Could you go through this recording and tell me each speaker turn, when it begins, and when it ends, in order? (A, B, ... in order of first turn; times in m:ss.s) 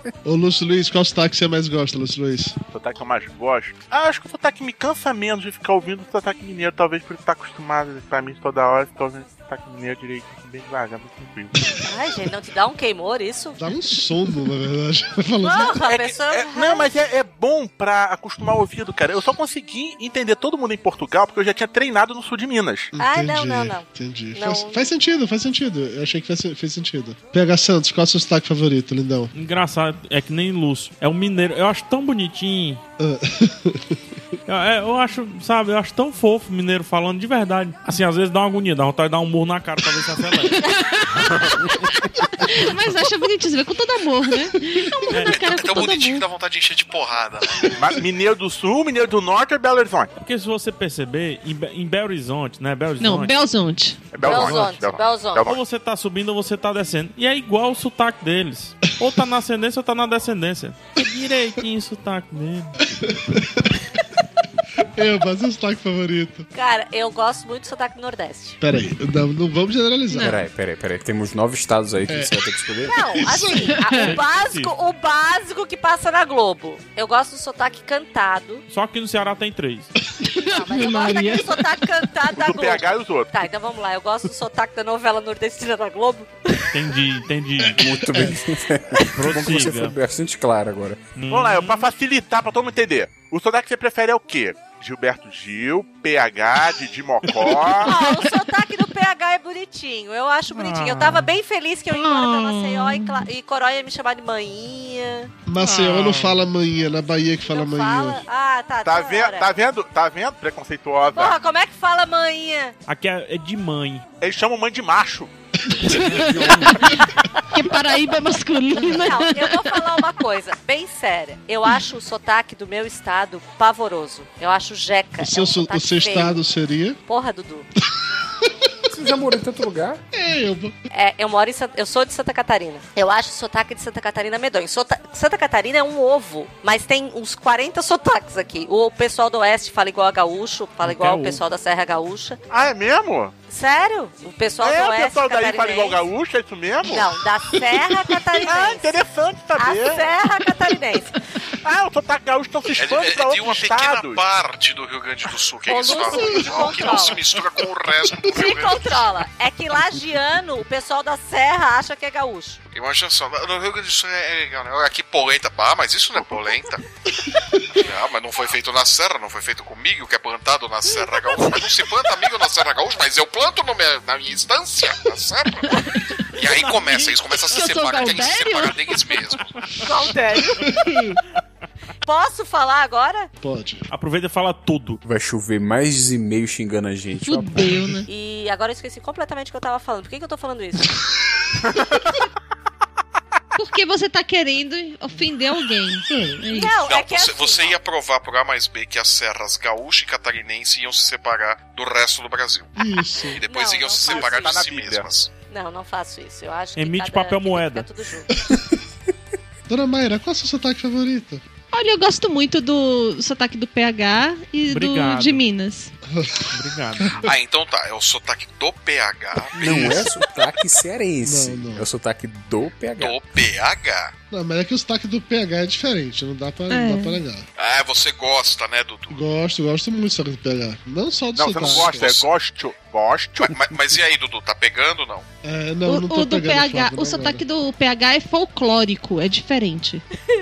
0:00.2-0:02.6 A
0:02.7-0:11.8 B
0:11.8-0:13.6 C
0:13.6-0:15.8 A
0:15.4-0:16.9 C
0:15.9-0:16.1 D
0:16.3-0:23.0 B
0:23.0-0:29.3 A
0:23.0-0:24.9 C
0:29.4-0:32.8 E
0:33.0-0:34.0 A
0:34.5-0:40.6 E
0:40.7-0:41.4 F
0:42.2-0:46.2 F
0:45.1-0:45.4 E
0:45.3-0:47.7 D
0:47.8-0:50.1 B
0:50.2-0:53.3 E
0:53.0-0:54.0 F
0:54.1-0:55.6 B
0:54.2-0:54.6 A
0:54.2-0:55.5 C
0:55.4-1:02.8 E
1:02.9-1:03.7 A
1:05.0-1:06.5 A
1:06.5-1:08.6 C
1:08.6-1:10.3 A
1:10.1-1:10.4 F
1:10.2-1:13.0 G
1:12.1-1:12.4 A
1:12.8-1:18.6 C
1:13.1-1:13.8 A
1:13.7-1:14.1 F
1:13.9-1:14.7 E
1:18.7-1:19.9 E
1:20.3-1:21.6 F
1:20.4-1:26.6 C
1:22.3-1:23.4 B
1:26.7-1:27.8 E
1:27.8-1:31.0 G
1:29.1-1:30.0 E
1:31.2-1:31.8 E
1:31.3-1:37.9 B
1:37.8-1:45.3 C
1:37.9-1:38.2 F
1:40.5-1:41.3 E
1:41.9-1:43.2 F
1:45.5-1:48.2 A
1:45.6-1:46.5 E
1:47.5-1:49.5 C
1:48.8-1:51.4 B
1:51.1-1:52.8 C
1:52.9-1:54.0 E
1:54.2-1:55.3 B
1:55.8-1:57.0 F
1:56.0-1:56.9 G
1:57.5-1:59.8 F
1:58.9-2:06.4 C
2:05.2-2:07.0 A
2:07.1-2:07.7 C
2:08.9-2:10.0 G
2:10.1-2:10.7 A
2:10.9-2:22.4 C
2:20.8-2:21.4 E
2:22.5-2:23.3 B
2:23.5-2:26.1 C
2:24.6-2:27.3 B
2:26.9-2:28.9 C
2:28.0-2:30.2 B
2:29.6-2:31.2 C
2:31.6-2:34.2 B
2:32.8-2:38.9 D
2:35.7-2:37.4 C
2:38.2-2:42.6 C
2:42.7-2:46.8 D
2:47.7-2:55.8 D
2:55.7-2:56.3 F
2:56.4-2:59.6 D
2:57.5-2:59.0 F
2:59.8-3:00.7 C
3:02.0-3:03.3 C
3:03.4-3:03.8 A
3:03.9-3:05.0 E
3:05.0-3:07.7 G
3:07.2-3:08.1 F
3:08.1-3:10.9 C
3:13.6-3:16.7 F
3:16.1-3:16.5 A
3:16.5-3:17.8 C
3:16.8-3:25.3 D
3:22.8-3:23.4 A
3:23.4-3:24.6 C
3:24.0-3:25.1 B
3:25.5-3:28.3 C
3:26.8-3:27.9 E
3:29.7-3:31.4 A
3:31.7-3:35.9 F
3:34.7-3:35.4 E
3:36.1-3:37.1 A
3:36.5-3:37.2 E
3:37.2-3:40.1 D
3:39.6-3:43.2 G
3:39.6-3:40.0 A
3:41.2-3:41.9 A
3:43.0-3:44.1 D
3:44.3-3:47.5 A
3:46.7-3:47.2 F
3:47.6-3:49.2 D
3:49.1-3:52.2 A
3:51.4-3:53.5 B
3:51.8-3:52.2 D
3:53.5-3:55.2 D
3:55.4-3:57.4 A
3:55.9-4:00.0 F